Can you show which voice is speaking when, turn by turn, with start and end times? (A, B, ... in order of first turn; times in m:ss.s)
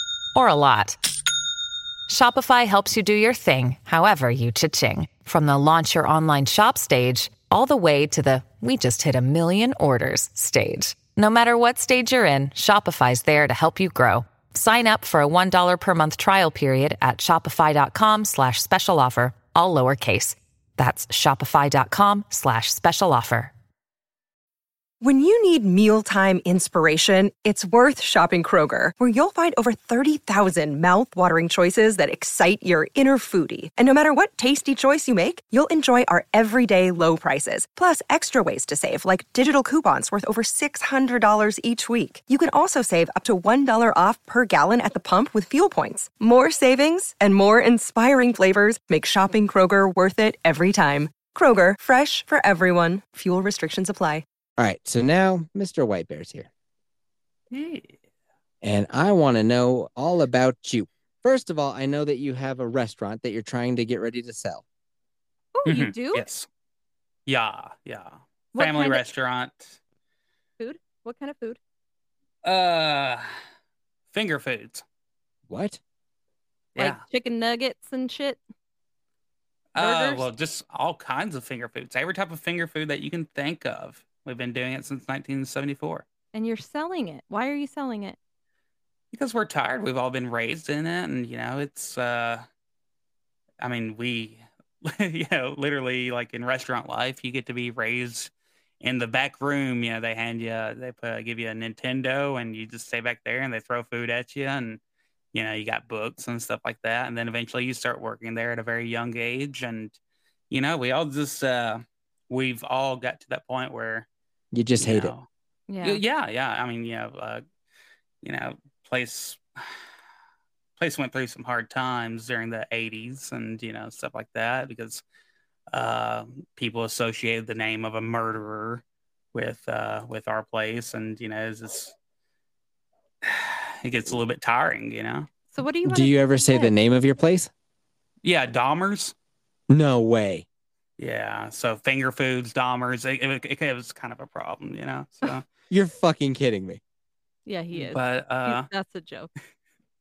0:00.3-0:01.0 A
0:02.1-0:23.5 A
0:25.0-0:54.2 B
0:54.6-0:56.5 C
0:57.5-0:58.0 D
0:58.6-1:04.6 C
1:05.5-1:06.2 E
1:05.6-1:06.5 D
1:07.3-1:09.8 D
1:08.5-1:09.0 E
1:10.6-1:11.6 E
1:12.4-1:13.3 D
1:14.1-1:14.8 D
1:15.5-1:15.8 C
1:16.8-1:18.4 E
1:19.7-1:26.0 D
1:19.8-1:20.2 E
1:26.3-1:28.2 E
1:29.1-1:32.4 D
1:33.6-1:44.8 D
1:45.3-1:50.0 D
1:50.5-1:54.0 D
1:54.5-1:55.1 C
1:54.8-1:55.2 D
1:55.7-1:56.0 E
1:55.8-1:57.4 D
1:58.2-1:59.4 D
2:00.8-2:05.0 D
2:05.7-2:08.8 D
2:09.3-2:11.9 D
2:13.2-2:15.3 D
2:15.5-2:16.7 E
2:15.8-2:17.5 C
2:18.2-2:19.1 D
2:19.7-2:20.4 C
2:21.0-2:25.4 D
2:25.7-2:26.8 C
2:27.4-2:29.3 E
2:27.7-2:28.7 D